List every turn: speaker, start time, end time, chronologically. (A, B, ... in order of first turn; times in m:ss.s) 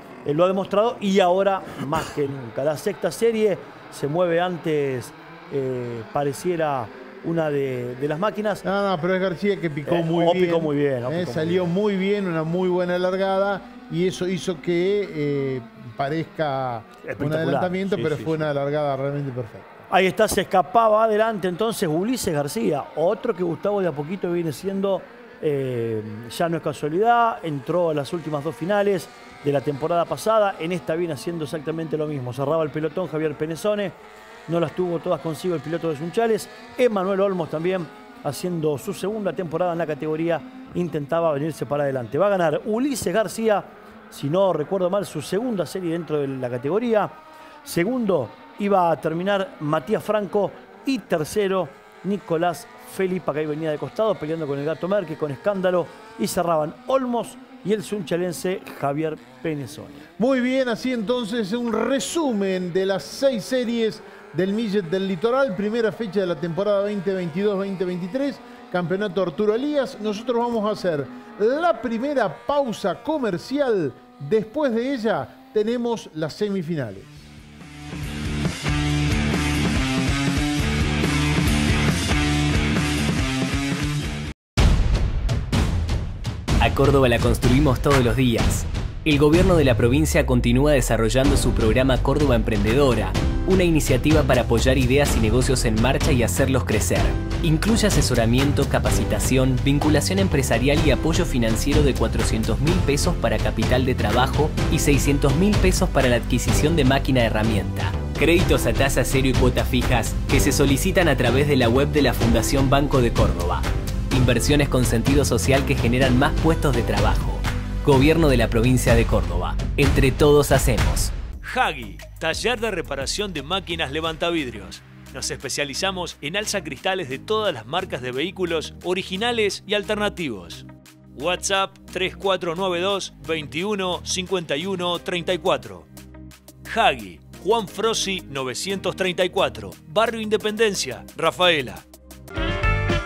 0:00.2-0:08.6 A
0:08.6-0:19.9 B
0:09.9-0:11.7 A
0:17.0-0:18.5 A
0:19.9-1:00.1 A
1:00.2-1:17.3 B
1:26.6-2:01.1 C
2:01.4-2:10.6 D
2:11.2-2:15.9 D
2:16.6-2:21.8 D